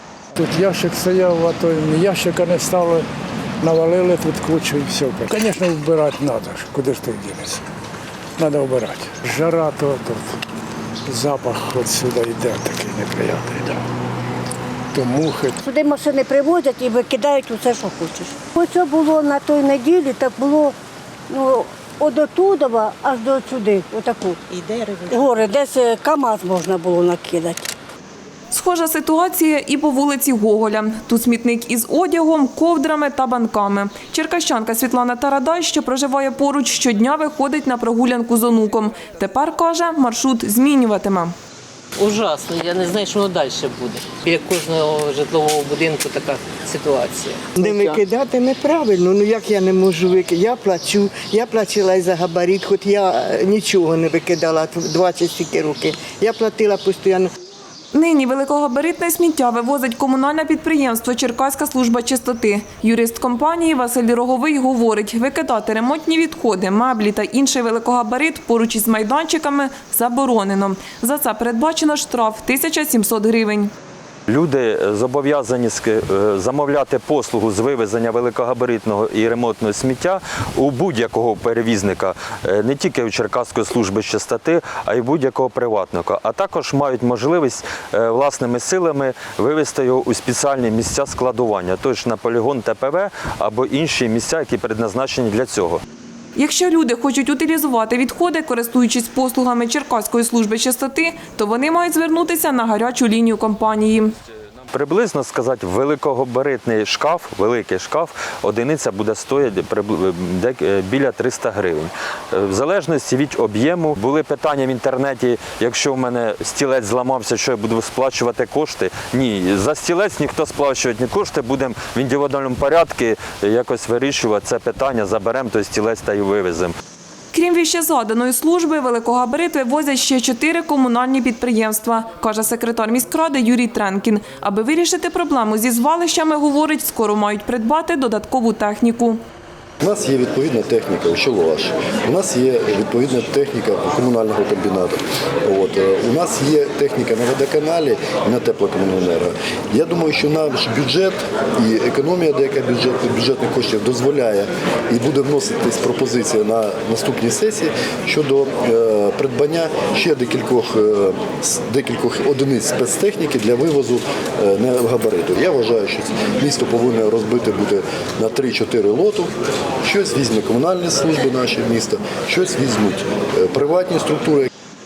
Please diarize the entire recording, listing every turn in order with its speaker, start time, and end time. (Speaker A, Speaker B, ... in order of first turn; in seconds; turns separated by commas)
Speaker A: 0.4-3.1, Speaker A: 3.6-7.7, Speaker A: 8.4-10.4, Speaker A: 11.1-13.8, Speaker A: 14.9-15.6, Speaker B: 15.6-20.8, Speaker B: 21.3-24.4, Speaker B: 25.1-27.7, Speaker C: 28.5-41.3, Speaker D: 42.0-48.0, Speaker E: 47.6-57.3, Speaker C: 57.9-73.7, Speaker F: 74.3-95.8, Speaker C: 96.4-104.1, Speaker F: 104.7-126.8, Speaker C: 127.3-139.2, Speaker G: 139.8-169.3, Speaker G: 169.8-174.5